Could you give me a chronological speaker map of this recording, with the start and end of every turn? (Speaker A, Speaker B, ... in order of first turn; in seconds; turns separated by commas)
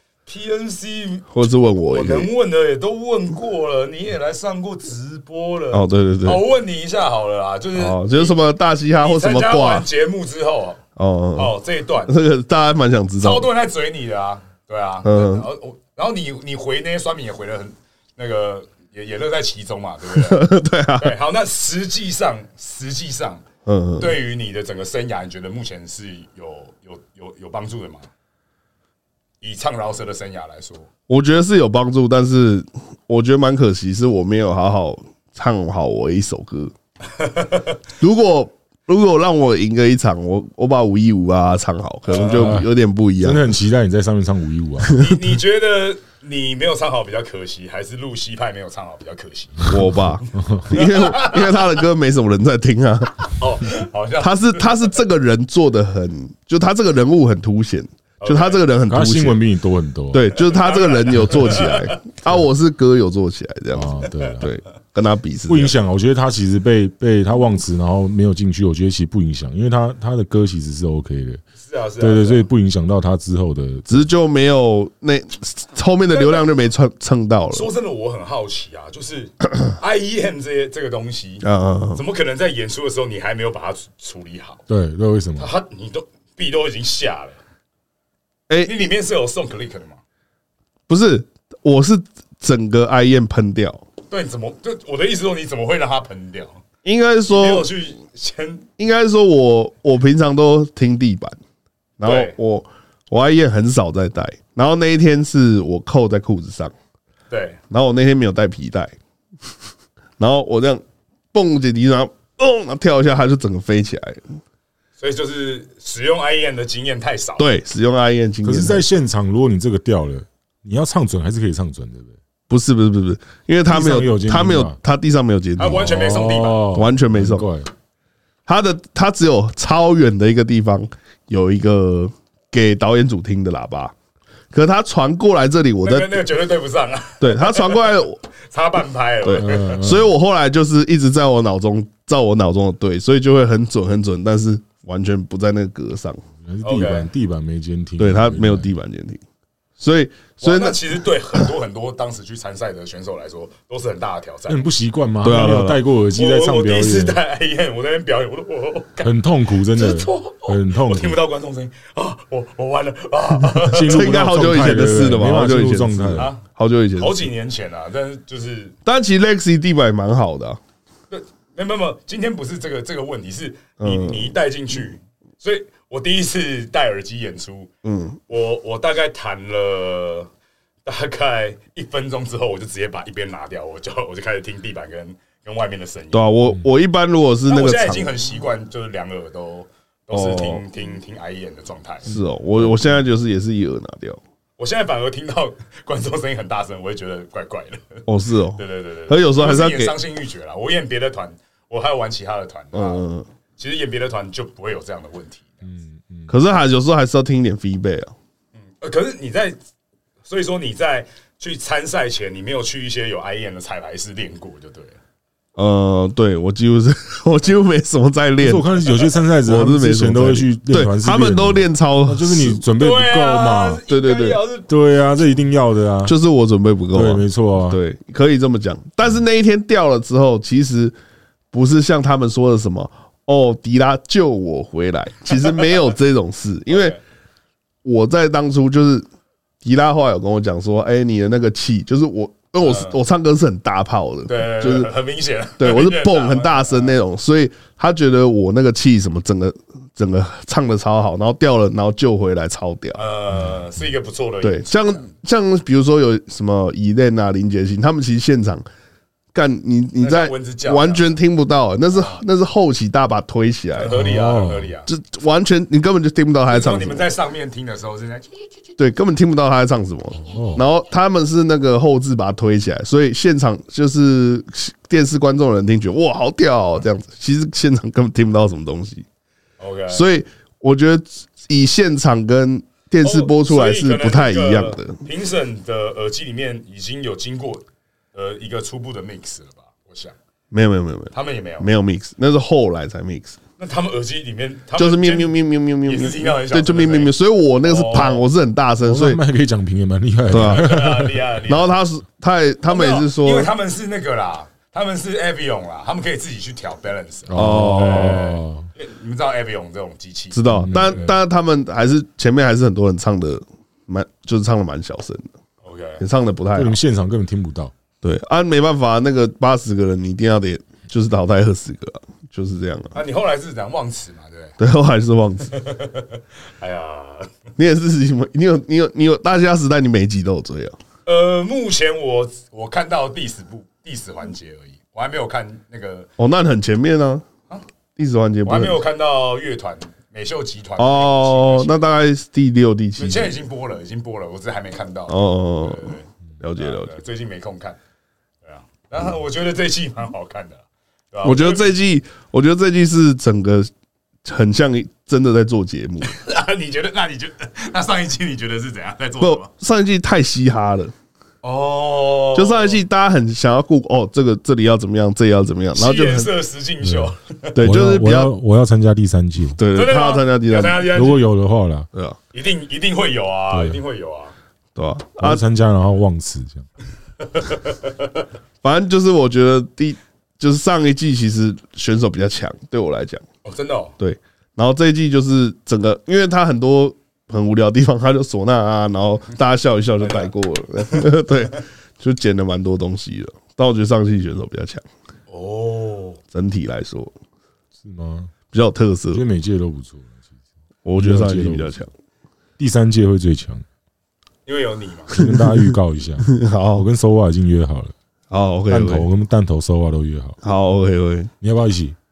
Speaker A: 0.3-8.4, Speaker B: 1.3-2.3, Speaker B: 5.7-6.4, Speaker B: 7.8-9.9, Speaker A: 9.0-10.8, Speaker B: 11.0-11.5, Speaker A: 11.3-12.2, Speaker B: 12.1-13.5, Speaker A: 13.2-23.4, Speaker B: 15.0-15.5, Speaker B: 20.1-21.1, Speaker B: 23.7-24.1, Speaker A: 24.0-28.1, Speaker A: 29.4-30.9, Speaker B: 31.1-36.7, Speaker A: 37.2-37.8, Speaker B: 38.0-43.5, Speaker A: 42.1-42.5, Speaker C: 42.3-45.0, Speaker B: 44.9-45.1, Speaker A: 44.9-50.0, Speaker B: 49.7-53.3, Speaker C: 50.4-50.6, Speaker A: 50.7-51.7, Speaker A: 53.4-54.9, Speaker B: 54.2-59.4, Speaker A: 58.2-58.6, Speaker C: 58.9-60.2, Speaker B: 60.1-65.8, Speaker A: 60.4-62.0, Speaker C: 63.7-64.5, Speaker C: 65.5-71.4, Speaker A: 71.6-72.5, Speaker C: 72.0-74.1, Speaker B: 73.9-77.7, Speaker A: 76.1-76.5, Speaker A: 77.5-84.6, Speaker B: 81.4-82.0, Speaker C: 84.7-85.5, Speaker A: 85.4-87.4, Speaker A: 88.6-90.0, Speaker B: 90.9-93.8, Speaker A: 94.1-96.6, Speaker B: 96.8-97.7, Speaker A: 97.3-98.7, Speaker B: 98.8-101.4, Speaker B: 102.0-106.7, Speaker A: 102.0-102.3, Speaker A: 107.3-107.6, Speaker B: 107.7-109.0, Speaker B: 110.2-114.3, Speaker A: 115.0-117.5, Speaker B: 117.4-118.8, Speaker C: 118.4-122.2, Speaker B: 122.5-125.9, Speaker C: 123.7-124.8, Speaker A: 125.6-126.7, Speaker C: 125.6-127.7, Speaker B: 126.7-127.5, Speaker B: 128.5-133.9, Speaker B: 134.5-136.2, Speaker A: 135.8-139.8, Speaker B: 137.2-138.2, Speaker B: 139.2-146.2, Speaker C: 139.4-140.1, Speaker C: 146.4-148.7, Speaker A: 146.6-147.1, Speaker B: 148.0-149.2, Speaker B: 149.8-150.8, Speaker A: 150.4-154.7, Speaker C: 154.5-157.2, Speaker B: 155.2-155.8, Speaker A: 156.2-164.1, Speaker C: 159.0-161.2, Speaker C: 163.6-166.3, Speaker B: 163.9-167.3, Speaker A: 166.2-166.4, Speaker A: 167.0-168.8, Speaker B: 168.9-170.6, Speaker A: 171.1-177.7, Speaker B: 173.8-174.3, Speaker B: 177.8-178.2, Speaker A: 178.3-180.3, Speaker A: 180.8-186.3, Speaker B: 186.1-188.1, Speaker A: 187.5-192.1, Speaker B: 190.1-190.6, Speaker B: 192.1-194.2, Speaker A: 194.6-205.7, Speaker B: 198.1-200.0, Speaker B: 202.7-203.3, Speaker C: 205.7-206.3, Speaker B: 206.3-208.1, Speaker A: 208.6-209.6, Speaker A: 210.2-215.0, Speaker B: 215.6-218.7, Speaker C: 218.4-223.8, Speaker B: 219.4-222.6, Speaker A: 222.8-224.7, Speaker B: 223.9-224.4, Speaker C: 224.7-226.2, Speaker B: 226.0-230.9, Speaker C: 226.9-227.8, Speaker B: 231.5-237.0, Speaker A: 236.7-237.0, Speaker B: 237.8-239.1, Speaker B: 239.6-244.9, Speaker A: 242.6-243.0, Speaker A: 244.3-246.9, Speaker B: 245.6-253.0, Speaker A: 252.9-255.1, Speaker B: 254.4-258.6, Speaker B: 259.3-264.0, Speaker A: 260.0-261.1, Speaker A: 261.9-262.2, Speaker A: 263.7-264.9, Speaker C: 263.9-264.7, Speaker B: 264.9-267.1, Speaker A: 266.5-268.3, Speaker B: 268.8-279.1, Speaker C: 270.3-270.6, Speaker A: 279.6-280.1, Speaker B: 279.9-285.0, Speaker A: 283.0-290.2, Speaker B: 290.5-293.4, Speaker A: 291.1-291.7, Speaker A: 293.6-298.2, Speaker B: 294.8-299.2, Speaker C: 298.8-301.2, Speaker B: 300.3-300.8, Speaker A: 300.3-301.8, Speaker B: 301.5-303.5, Speaker A: 302.7-311.1, Speaker C: 307.3-308.7, Speaker B: 307.3-308.2, Speaker B: 310.3-315.3, Speaker C: 310.6-311.1, Speaker A: 315.6-316.0, Speaker B: 316.0-316.8, Speaker C: 316.6-317.7, Speaker B: 318.0-323.0, Speaker A: 322.9-324.6, Speaker B: 324.6-325.5, Speaker A: 325.5-327.3, Speaker B: 327.6-330.8, Speaker A: 331.1-336.1, Speaker B: 336.2-337.3, Speaker B: 338.0-338.8, Speaker A: 338.4-341.9, Speaker B: 340.8-343.3, Speaker A: 343.0-347.8, Speaker B: 345.1-346.9, Speaker A: 348.4-351.7, Speaker B: 351.2-353.7, Speaker B: 354.2-356.1, Speaker A: 356.0-359.5, Speaker B: 359.2-360.9, Speaker A: 361.4-362.8, Speaker B: 362.3-366.3, Speaker A: 365.8-367.6, Speaker C: 366.8-369.6, Speaker B: 367.6-368.3, Speaker B: 369.6-370.9, Speaker A: 369.7-371.2, Speaker C: 370.9-371.9, Speaker B: 371.9-372.2, Speaker A: 372.3-374.3, Speaker C: 373.5-373.8, Speaker B: 374.8-375.4, Speaker C: 375.2-376.7, Speaker A: 377.2-378.2, Speaker B: 378.6-383.2, Speaker A: 383.4-384.0, Speaker B: 384.0-394.8, Speaker A: 390.0-390.3, Speaker A: 395.3-396.2, Speaker B: 396.3-397.1, Speaker C: 397.8-398.3, Speaker B: 398.5-399.2, Speaker C: 399.1-400.1, Speaker B: 400.9-401.9, Speaker C: 401.0-401.8, Speaker C: 402.6-403.6, Speaker A: 404.5-405.2, Speaker C: 405.1-407.9, Speaker B: 405.2-406.9, Speaker B: 408.3-409.1, Speaker C: 408.7-410.4, Speaker B: 410.4-411.3, Speaker C: 411.4-412.0